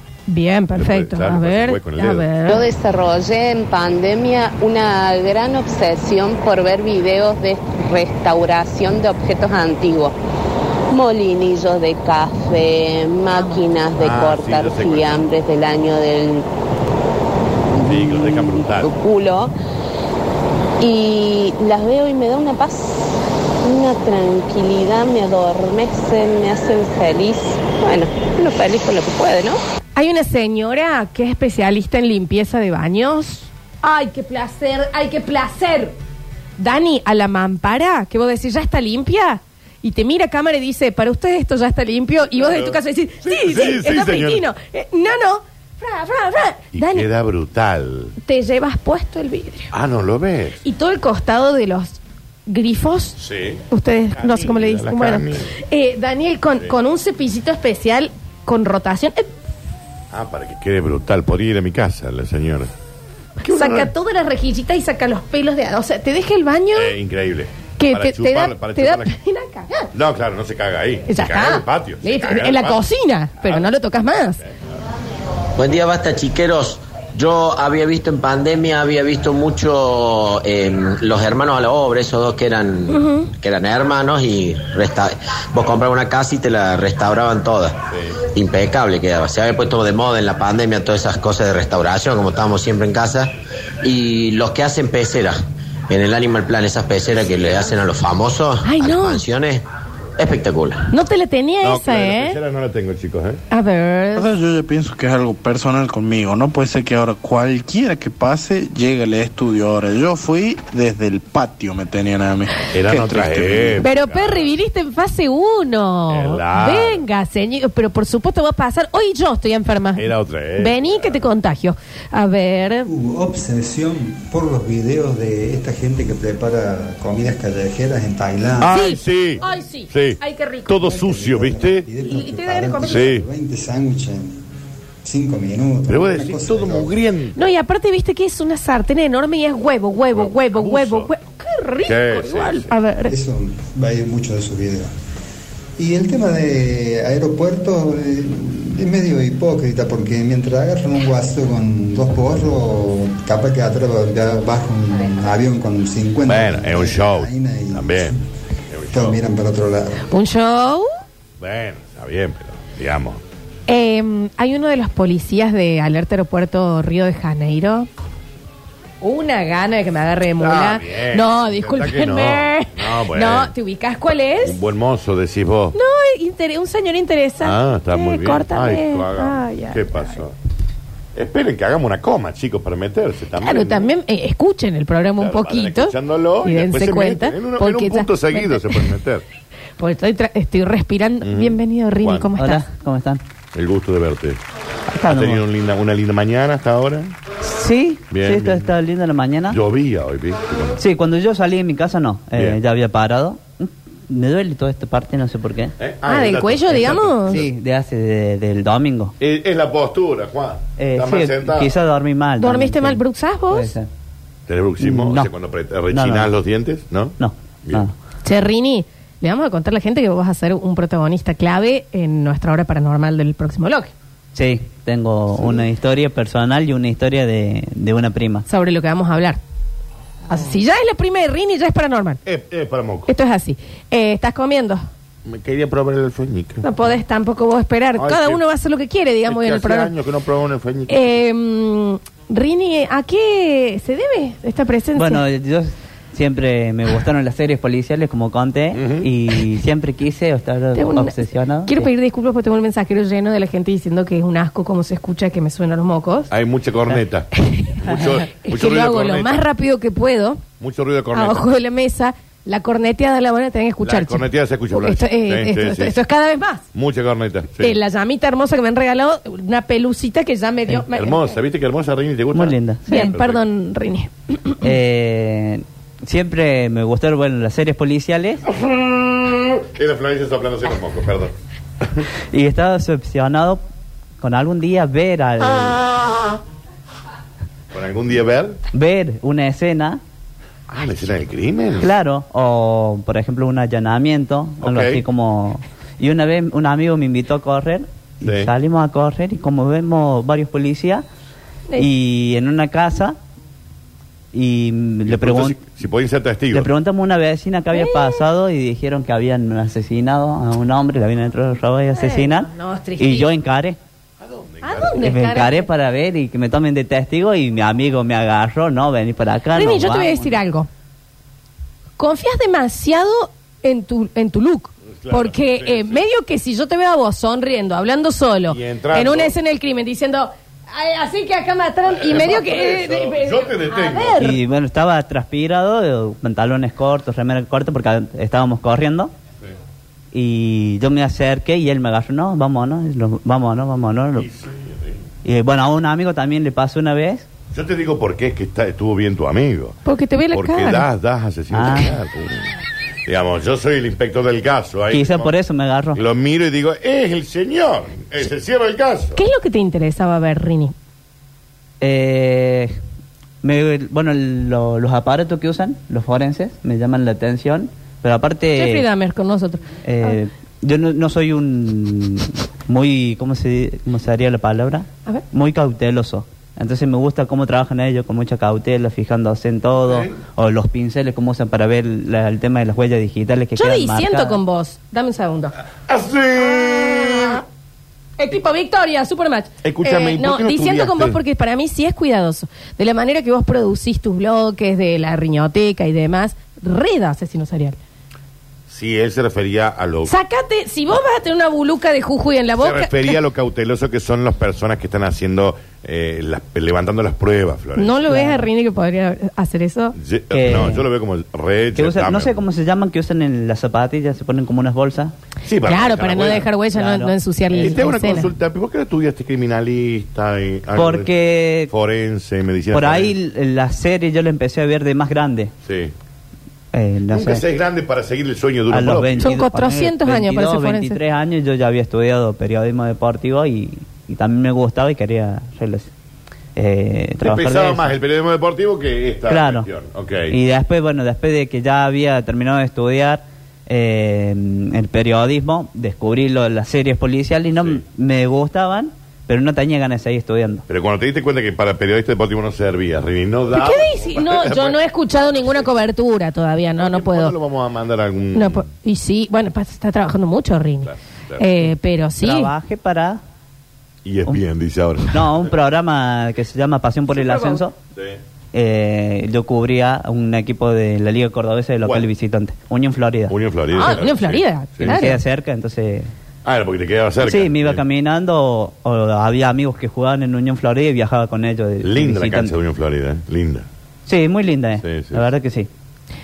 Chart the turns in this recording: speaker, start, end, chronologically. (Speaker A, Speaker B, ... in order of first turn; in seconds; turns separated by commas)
Speaker A: 0.3-2.6, Speaker B: 0.8-2.3, Speaker C: 2.5-10.1, Speaker C: 10.9-16.5, Speaker B: 13.9-15.3, Speaker B: 17.8-18.9, Speaker C: 17.8-19.5, Speaker C: 20.8-29.6, Speaker A: 30.0-36.0, Speaker A: 36.6-47.1, Speaker B: 42.3-44.4, Speaker B: 46.7-48.1, Speaker A: 48.2-49.7, Speaker B: 49.7-50.6, Speaker A: 50.6-59.3, Speaker B: 53.2-53.6, Speaker B: 54.2-55.5, Speaker B: 60.1-62.7, Speaker A: 63.4-66.9, Speaker B: 63.5-63.9, Speaker B: 66.8-69.1, Speaker A: 67.8-69.9, Speaker B: 69.9-72.8, Speaker A: 71.1-74.4, Speaker B: 73.4-73.7, Speaker D: 75.6-87.8, Speaker A: 82.9-83.3, Speaker B: 87.9-88.2, Speaker D: 88.3-93.3, Speaker D: 93.8-95.4, Speaker D: 95.9-99.6, Speaker A: 98.6-99.2, Speaker D: 100.2-100.9, Speaker A: 100.9-102.4, Speaker B: 101.6-103.4, Speaker A: 103.5-104.3, Speaker E: 104.1-113.8, Speaker B: 112.7-114.5, Speaker A: 113.8-122.9, Speaker B: 116.1-117.0, Speaker B: 120.0-121.2, Speaker F: 122.9-128.9, Speaker B: 128.6-131.9, Speaker A: 128.7-130.8, Speaker F: 130.8-134.4, Speaker A: 132.0-133.2, Speaker B: 132.8-133.2, Speaker F: 135.0-136.9, Speaker B: 135.9-137.5, Speaker A: 137.4-143.1, Speaker B: 140.1-141.1, Speaker B: 141.8-142.7, Speaker F: 143.1-144.9, Speaker F: 145.8-158.2, Speaker B: 156.3-158.1, Speaker B: 158.7-159.2, Speaker F: 158.9-160.0, Speaker A: 160.1-160.9, Speaker B: 161.4-163.2, Speaker A: 163.7-167.9, Speaker A: 169.0-174.6, Speaker B: 170.4-173.5, Speaker B: 174.4-175.8, Speaker A: 175.7-180.2, Speaker B: 177.4-180.3, Speaker B: 181.1-183.9, Speaker A: 183.4-188.9, Speaker B: 185.2-189.2, Speaker A: 189.8-192.6, Speaker B: 191.2-192.3, Speaker G: 192.4-193.2, Speaker B: 193.5-194.4, Speaker G: 194.9-195.4, Speaker B: 195.1-197.1, Speaker G: 197.4-199.6, Speaker B: 198.1-198.7, Speaker B: 199.5-200.8, Speaker G: 200.8-205.7, Speaker B: 205.8-207.5, Speaker A: 206.1-207.4, Speaker G: 206.7-209.1, Speaker B: 209.2-211.7, Speaker G: 210.8-213.9, Speaker A: 212.4-213.7, Speaker B: 214.5-217.1, Speaker G: 214.8-215.3, Speaker G: 215.9-216.3, Speaker G: 217.2-217.9, Speaker A: 218.2-223.9, Speaker G: 224.3-228.5, Speaker B: 225.3-225.7, Speaker A: 228.5-229.4, Speaker A: 230.3-232.2, Speaker B: 232.2-233.1, Speaker A: 233.1-234.9, Speaker B: 235.2-236.7, Speaker A: 236.6-239.9, Speaker B: 238.0-238.4, Speaker B: 239.3-241.2, Speaker A: 240.9-245.2, Speaker G: 245.0-251.9, Speaker B: 248.7-249.1, Speaker A: 250.8-256.3, Speaker B: 256.3-257.3, Speaker A: 257.4-260.4, Speaker B: 257.8-259.4, Speaker B: 260.6-261.5, Speaker A: 261.1-266.6, Speaker B: 263.8-266.0, Speaker B: 266.7-267.8, Speaker A: 267.6-271.3, Speaker B: 270.9-273.4, Speaker G: 272.3-273.0, Speaker A: 272.9-274.6, Speaker G: 274.6-278.4, Speaker B: 278.5-281.3, Speaker G: 282.3-283.6, Speaker G: 284.2-285.8, Speaker B: 287.7-288.6, Speaker G: 288.7-290.0, Speaker B: 290.7-291.9, Speaker G: 291.8-301.0, Speaker B: 294.6-295.0, Speaker B: 298.2-298.5, Speaker G: 301.8-303.1, Speaker G: 304.3-305.6, Speaker B: 305.1-306.7, Speaker G: 306.5-313.8, Speaker A: 307.7-308.2, Speaker A: 311.9-313.3, Speaker B: 314.2-315.1, Speaker A: 314.6-315.6, Speaker G: 315.0-320.4, Speaker A: 319.5-320.7, Speaker A: 322.0-334.4, Speaker B: 325.0-326.0, Speaker B: 328.5-329.3, Speaker B: 331.9-334.2, Speaker G: 334.2-339.1, Speaker G: 340.1-344.3, Speaker B: 344.2-345.0, Speaker G: 345.2-347.3, Speaker B: 347.5-349.8, Speaker A: 349.9-350.9, Speaker B: 350.3-352.5, Speaker G: 351.5-351.9, Speaker B: 353.1-355.3, Speaker G: 354.9-356.0, Speaker B: 355.9-359.2, Speaker A: 359.1-360.7, Speaker G: 361.8-362.8, Speaker G: 363.4-368.9, Speaker A: 368.6-370.2, Speaker G: 369.9-384.4, Speaker B: 379.9-380.2, Speaker A: 383.6-385.6, Speaker B: 385.9-387.4, Speaker A: 386.4-387.4, Speaker A: 388.2-397.8, Speaker B: 389.6-391.2, Speaker B: 398.7-400.1, Speaker A: 400.1-403.1, Speaker B: 402.6-408.2, Speaker A: 407.8-409.9, Speaker G: 408.1-408.4, Speaker B: 409.9-412.4, Speaker G: 410.3-410.9, Speaker G: 411.8-415.1, Speaker B: 415.4-416.5, Speaker A: 415.6-418.3, Speaker G: 416.7-417.8, Speaker B: 417.5-421.1, Speaker G: 420.8-421.7, Speaker B: 421.7-423.1, Speaker G: 422.7-425.5, Speaker B: 425.6-425.9, Speaker G: 426.7-427.4, Speaker B: 427.1-429.4, Speaker G: 428.7-435.9, Speaker A: 429.2-431.0, Speaker G: 436.6-437.9, Speaker B: 437.2-440.3, Speaker G: 439.3-439.7, Speaker G: 440.3-450.6, Speaker B: 447.6-447.8, Speaker B: 450.7-454.8, Speaker A: 453.5-457.4, Speaker B: 455.3-455.6, Speaker B: 456.8-458.6, Speaker A: 458.3-462.5, Speaker B: 460.9-461.6, Speaker G: 462.2-463.2, Speaker B: 464.0-465.5, Speaker G: 465.1-467.8, Speaker A: 467.1-467.6, Speaker G: 468.5-473.4, Speaker B: 473.3-475.0, Speaker A: 473.7-475.2, Speaker G: 474.8-476.1, Speaker B: 476.4-477.8, Speaker G: 477.2-482.5, Speaker B: 481.8-483.6, Speaker G: 484.1-485.7, Speaker B: 484.8-485.3